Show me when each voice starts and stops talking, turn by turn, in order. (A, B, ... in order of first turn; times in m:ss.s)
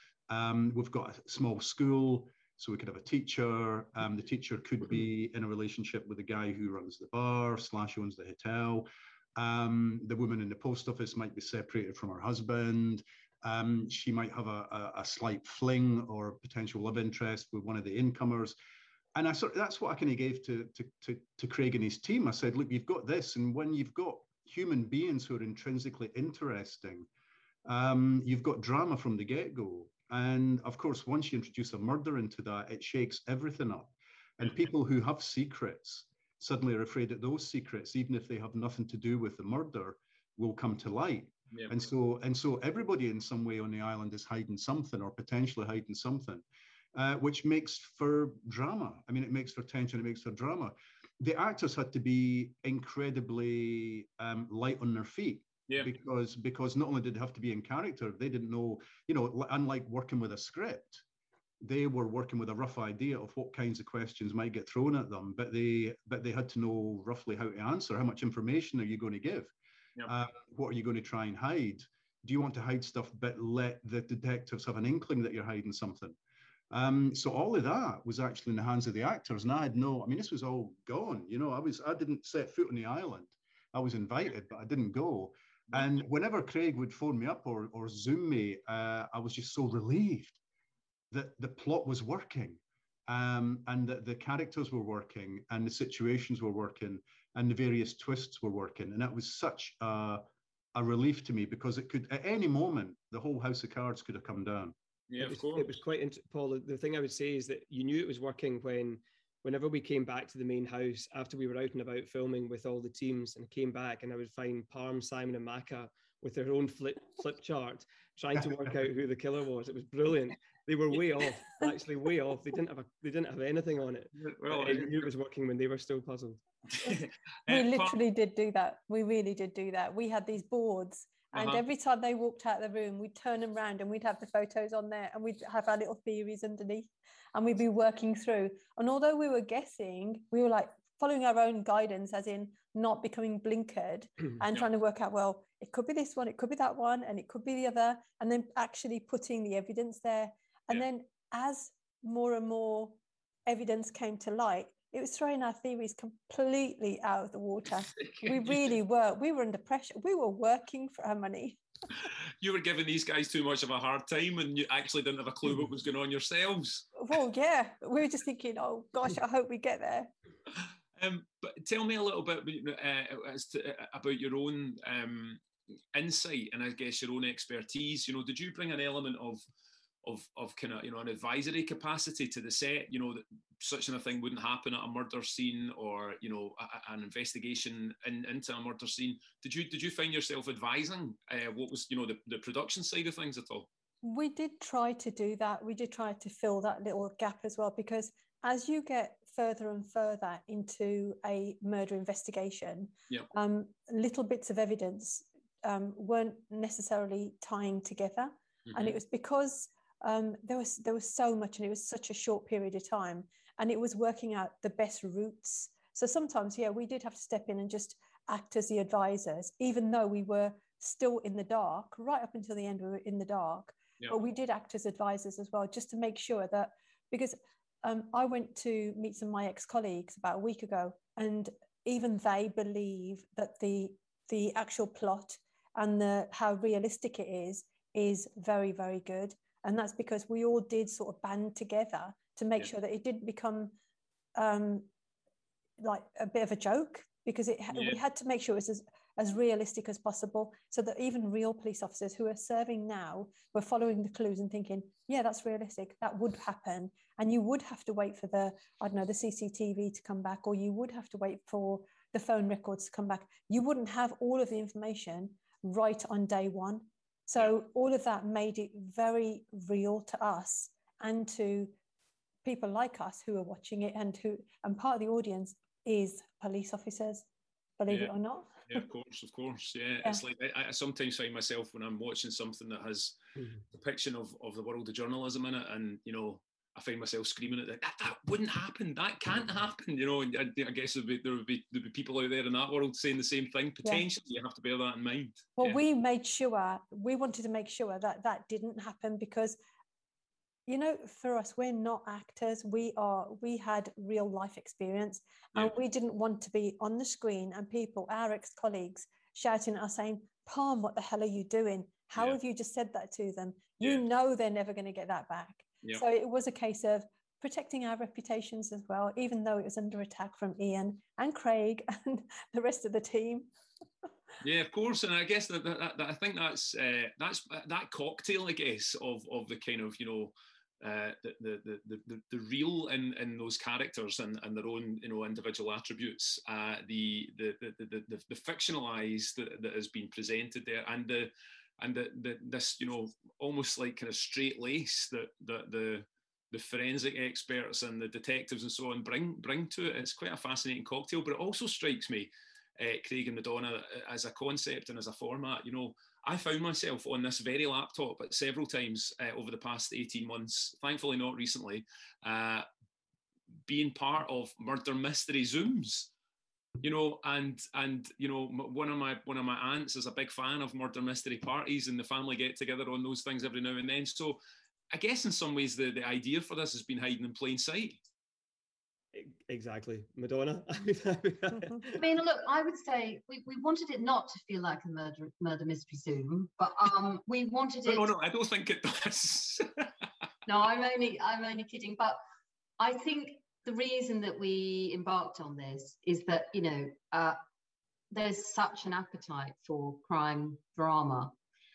0:00.3-0:18.6 A
0:19.1-0:27.1 A
0:27.6-1:01.0 A
1:01.6-1:09.5 A
1:10.0-1:16.2 A
1:16.7-1:30.4 A
1:31.1-1:40.2 A
1:40.7-1:44.7 A
1:45.1-1:45.7 B
1:45.2-2:06.4 C
2:04.2-2:05.1 B
2:06.8-2:08.0 B
2:06.8-2:41.6 D
2:11.3-2:11.6 B
2:38.0-2:38.3 B
2:42.4-2:46.9 B
2:47.0-2:50.1 D
2:51.0-2:55.4 B
2:55.9-2:59.4 B
3:00.0-3:13.7 B
3:14.0-4:03.7 D
3:28.6-3:29.0 B
4:04.4-4:04.9 D
4:05.8-4:31.7 D
4:07.7-4:08.0 B
4:32.4-4:37.2 D
4:37.8-4:38.8 D
4:38.7-4:43.2 B
4:43.7-4:55.8 B
4:55.6-4:59.6 D
5:00.7-5:23.5 D
5:24.4-6:02.6 B
6:03.7-6:06.1 B
6:06.8-6:14.4 B
6:14.9-6:18.0 B
6:19.1-6:22.0 C
6:21.9-6:28.1 E
6:27.8-6:29.9 B
6:30.4-6:32.2 E
6:32.8-6:37.4 E
6:38.1-6:41.3 E